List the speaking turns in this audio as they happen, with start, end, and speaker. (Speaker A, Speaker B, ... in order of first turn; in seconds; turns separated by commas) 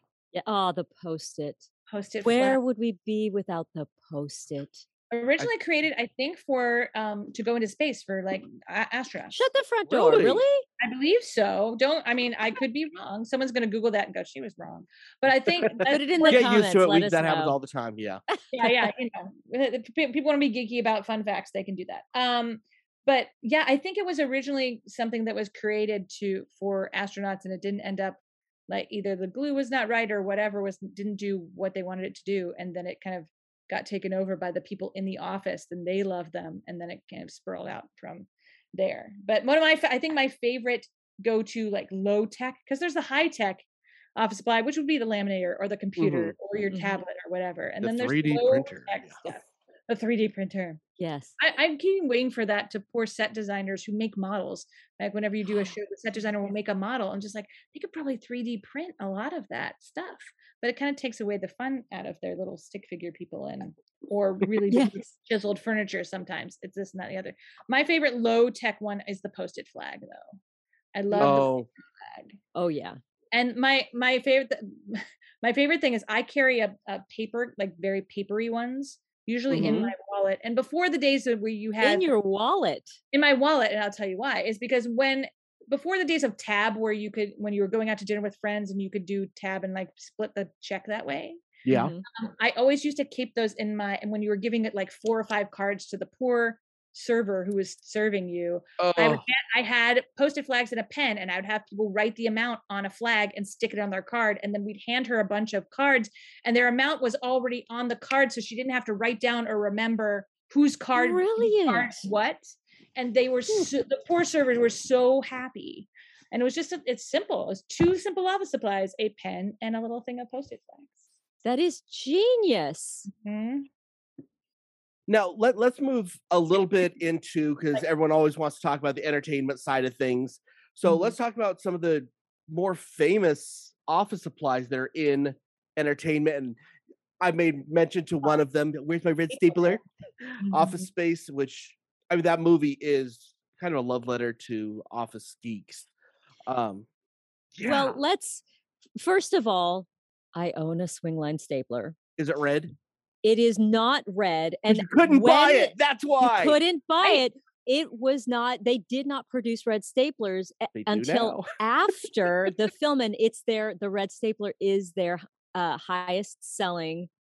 Speaker A: 0.3-1.7, Speaker B: 1.9-2.6, Speaker A: 2.2-4.8, Speaker B: 5.1-9.3, Speaker A: 9.3-10.6, Speaker C: 9.9-10.4, Speaker B: 10.8-16.4, Speaker A: 15.9-17.5, Speaker C: 16.3-18.2, Speaker A: 18.3-18.9, Speaker B: 18.5-50.8, Speaker C: 46.0-46.3, Speaker A: 46.7-47.0, Speaker C: 47.8-49.2, Speaker A: 51.0-51.3, Speaker B: 51.4-70.4, Speaker A: 55.5-55.7, Speaker A: 64.7-65.0, Speaker B: 70.9-72.3, Speaker C: 71.1-71.7, Speaker A: 72.5-73.0, Speaker B: 73.3-82.1, Speaker C: 79.5-79.9, Speaker A: 81.8-83.0, Speaker B: 83.1-91.5, Speaker C: 91.6-91.9, Speaker A: 91.7-92.0, Speaker B: 92.1-120.9, Speaker C: 98.8-99.2, Speaker A: 110.9-112.1, Speaker A: 121.4-123.1, Speaker B: 123.1-123.7, Speaker C: 125.1-136.6, Speaker B: 130.8-131.1, Speaker C: 137.2-139.8, Speaker B: 139.3-139.8, Speaker B: 140.4-140.9, Speaker C: 140.4-145.9, Speaker C: 146.5-146.9, Speaker C: 147.5-148.0, Speaker A: 147.6-148.4, Speaker A: 149.0-151.9, Speaker C: 152.2-152.7, Speaker A: 153.2-167.1, Speaker C: 154.7-156.6, Speaker C: 160.7-162.5